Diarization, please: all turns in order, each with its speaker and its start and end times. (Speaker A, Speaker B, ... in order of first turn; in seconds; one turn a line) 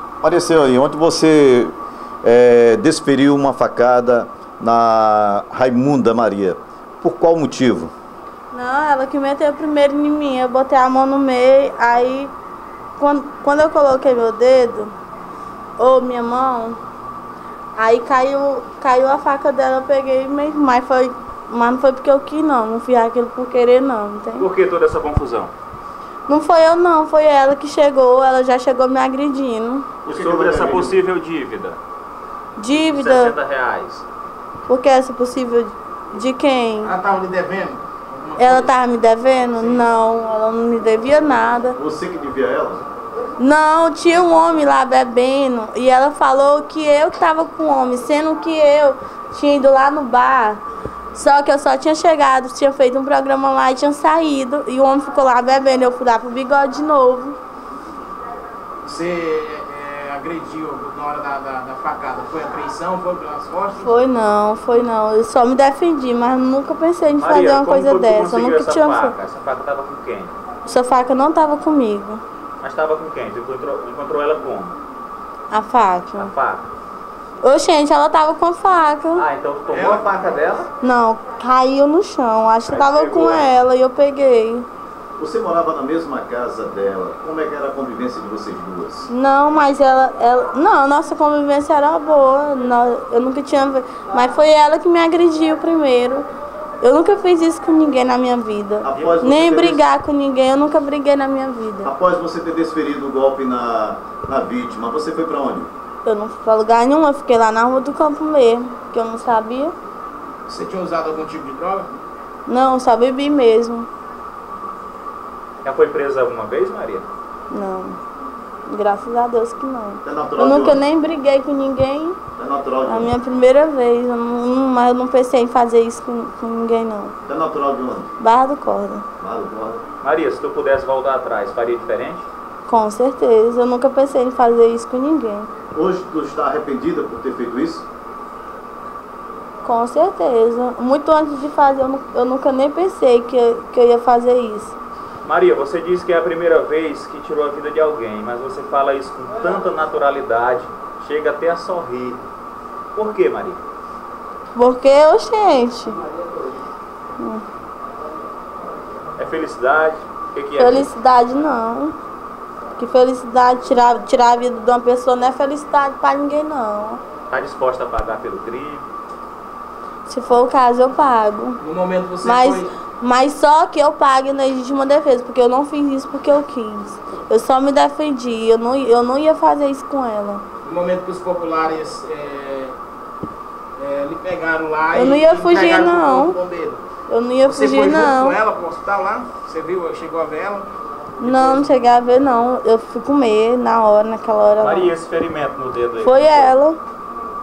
Speaker A: 0.2-7.9
Speaker B: 8.5-12.3
Speaker B: 13.0-14.9
Speaker B: 15.8-16.8
Speaker B: 17.8-24.5
Speaker C: 24.4-25.5
Speaker B: 26.3-29.9
Speaker A: 30.0-31.0
Speaker C: 30.1-31.8
Speaker B: 32.6-33.3
Speaker C: 32.7-34.0
Speaker B: 34.7-36.9
Speaker D: 36.8-38.7
Speaker B: 38.4-41.8
Speaker A: 41.8-42.8
Speaker B: 43.4-50.6
Speaker B: 51.1-57.4
Speaker D: 58.8-63.9
Speaker B: 63.8-69.2
Speaker C: 67.2-70.3
Speaker B: 70.6-72.2
Speaker C: 72.6-74.8
Speaker B: 75.5-76.3
Speaker C: 76.2-76.7
Speaker B: 77.4-79.2
Speaker C: 79.1-80.7
Speaker D: 79.7-80.2
Speaker B: 80.8-84.7
Speaker C: 82.7-83.5
Speaker A: 85.2-89.1
Speaker B: 89.1-96.2
Speaker B: 96.8-101.9
Speaker A: 98.8-99.8
Speaker C: 98.9-99.2
Speaker A: 101.8-105.7
Speaker B: 106.0-109.7
Speaker D: 110.5-111.9
Speaker B: 112.5-113.9
Speaker C: 115.6-117.1
Speaker B: 117.5-118.0
Speaker B: 118.7-122.2
Speaker A: 120.0-120.8
Speaker A: 122.4-123.1
Speaker B: 122.8-127.1
Speaker A: 127.2-128.1
Speaker B: 128.2-129.0
Speaker A: 129.2-129.8
Speaker C: 130.0-132.3
Speaker B: 132.7-135.5
Speaker A: 135.7-137.8
Speaker B: 139.6-144.8
Speaker C: 145.2-152.2
Speaker C: 152.9-153.6
Speaker B: 154.5-156.0
Speaker B: 157.2-157.4
Speaker C: 159.2-160.9
Speaker B: 160.6-161.9
Speaker B: 162.8-167.0
Speaker C: 167.3-168.8
Speaker B: 170.1-171.6
Speaker D: 171.6-172.7
Speaker B: 172.2-180.4
Speaker D: 180.6-182.8
Speaker D: 183.8-186.8
Speaker B: 184.9-186.4
Speaker B: 187.1-188.4
Speaker D: 187.4-191.7
Speaker B: 191.2-194.9
Speaker C: 194.6-196.6
Speaker B: 196.0-196.8